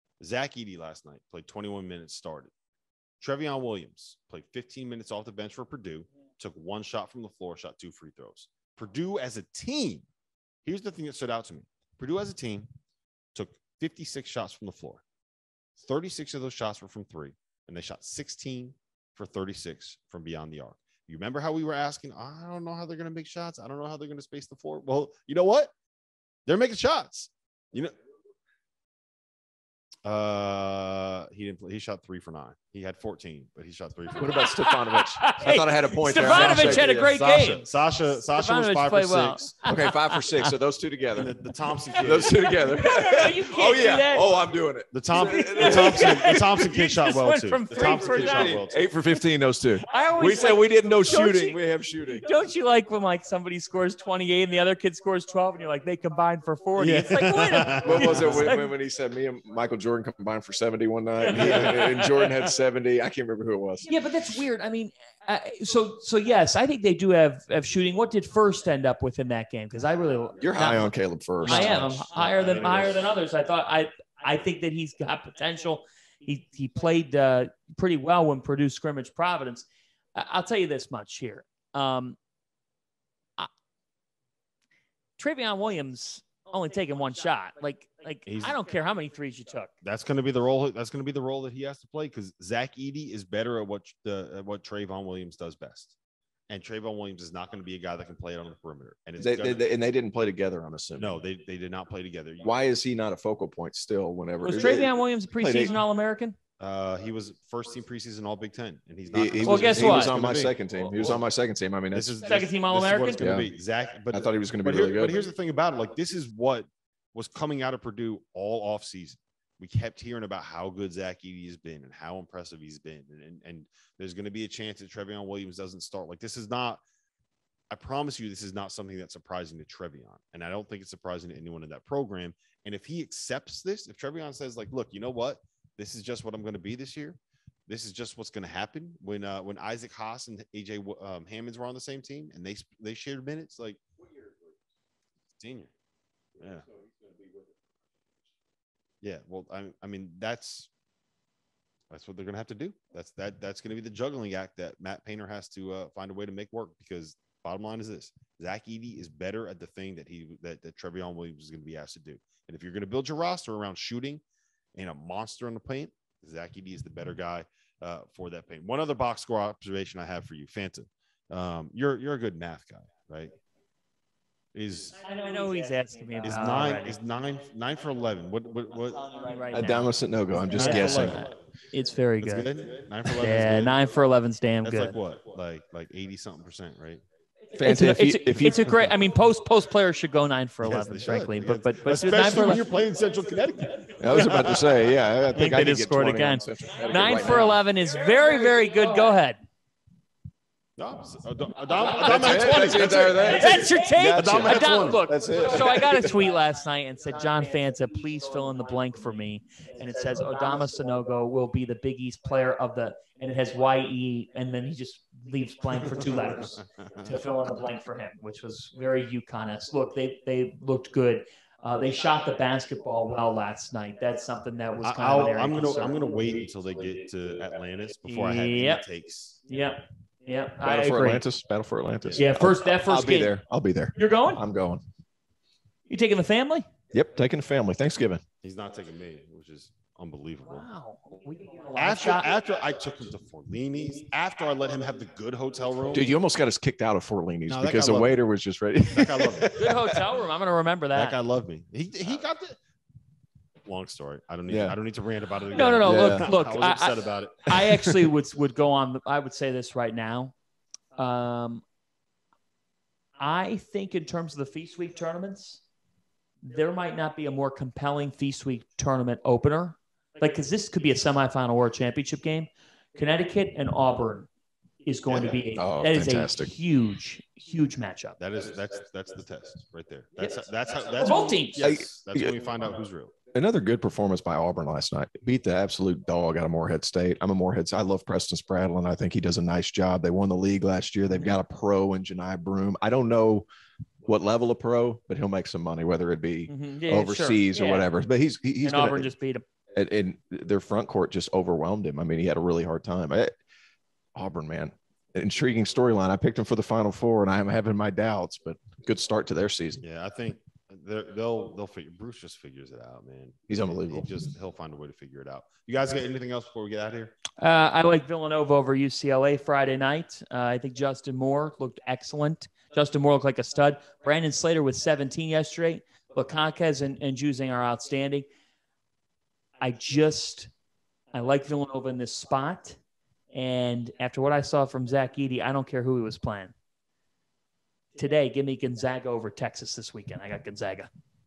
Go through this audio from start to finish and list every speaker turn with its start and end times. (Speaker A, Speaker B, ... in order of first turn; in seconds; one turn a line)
Speaker A: 0.2-2.5
Speaker A: 3.2-10.1
Speaker A: 10.6-12.7
Speaker A: 13.3-15.0
Speaker A: 15.8-25.7
Speaker A: 26.4-27.9
Speaker A: 30.0-34.6
Speaker B: 34.1-37.2
Speaker C: 34.4-40.5
Speaker A: 36.2-39.6
Speaker B: 39.7-41.3
Speaker A: 41.1-42.4
Speaker B: 42.0-46.3
Speaker C: 42.5-44.3
Speaker A: 44.9-48.8
Speaker C: 45.1-48.6
Speaker B: 47.7-52.2
Speaker C: 49.9-51.6
Speaker C: 52.2-58.7
Speaker A: 56.8-58.4
Speaker B: 57.8-63.9
Speaker C: 61.2-62.1
Speaker A: 61.3-61.7
Speaker C: 63.9-82.2
Speaker B: 70.4-72.1
Speaker A: 71.4-73.1
Speaker C: 85.2-89.7
Speaker A: 88.3-88.6
Speaker A: 89.8-96.0
Speaker A: 96.5-99.7
Speaker B: 99.2-101.2
Speaker A: 101.0-102.5
Speaker B: 102.4-105.7
Speaker C: 104.4-106.4
Speaker A: 106.6-111.2
Speaker B: 109.1-112.1
Speaker C: 109.4-110.2
Speaker A: 111.9-126.8
Speaker C: 112.2-113.4
Speaker B: 113.2-113.5
Speaker B: 114.1-115.2
Speaker A: 127.7-143.8
Speaker A: 145.4-145.7
Speaker A: 146.4-146.7
Speaker A: 149.0-150.7
Speaker A: 151.9-164.2
Speaker A: 164.7-173.3
Speaker A: 174.5-175.0
Speaker C: 175.0-176.9
Speaker A: 176.2-179.2
Speaker C: 179.1-182.5
Speaker B: 179.5-181.3
Speaker A: 180.5-181.3
Speaker A: 182.2-183.8
Speaker C: 183.2-184.9
Speaker A: 184.6-187.0
Speaker B: 187.5-188.5
Speaker C: 187.5-192.7
Speaker A: 188.3-188.9
Speaker A: 190.6-194.9
Speaker B: 194.0-197.6
Speaker C: 195.3-199.4
Speaker A: 200.8-205.0
Speaker C: 201.7-226.0
Speaker B: 202.0-206.1
Speaker A: 216.5-217.0
Speaker A: 224.8-229.4
Speaker C: 228.0-228.8
Speaker C: 229.5-231.2
Speaker B: 230.6-234.8
Speaker A: 232.0-232.2
Speaker C: 232.2-233.4
Speaker C: 233.9-234.4
Speaker C: 235.9-236.7
Speaker B: 236.9-238.2
Speaker A: 238.4-240.7
Speaker C: 240.4-242.3
Speaker A: 241.8-246.1
Speaker B: 245.9-250.0
Speaker A: 247.5-248.2
Speaker A: 248.9-249.5
Speaker C: 249.5-251.2
Speaker A: 250.9-252.6
Speaker A: 253.6-257.5
Speaker B: 254.5-254.8
Speaker C: 255.5-260.3
Speaker B: 255.8-256.3
Speaker C: 260.9-261.6
Speaker C: 263.2-265.6
Speaker C: 266.4-274.3
Speaker C: 274.8-278.2
Speaker A: 275.1-275.4
Speaker B: 275.5-276.5
Speaker A: 278.2-283.1
Speaker C: 281.0-281.7
Speaker B: 281.6-282.3
Speaker B: 283.3-293.4
Speaker B: 294.1-299.1
Speaker C: 296.5-297.9
Speaker C: 298.6-299.4
Speaker B: 299.7-303.3
Speaker B: 304.1-309.8
Speaker A: 309.8-317.2
Speaker B: 313.5-314.1
Speaker C: 317.4-328.2
Speaker C: 329.6-330.5
Speaker C: 331.1-332.8
Speaker C: 333.3-336.5
Speaker C: 337.9-340.9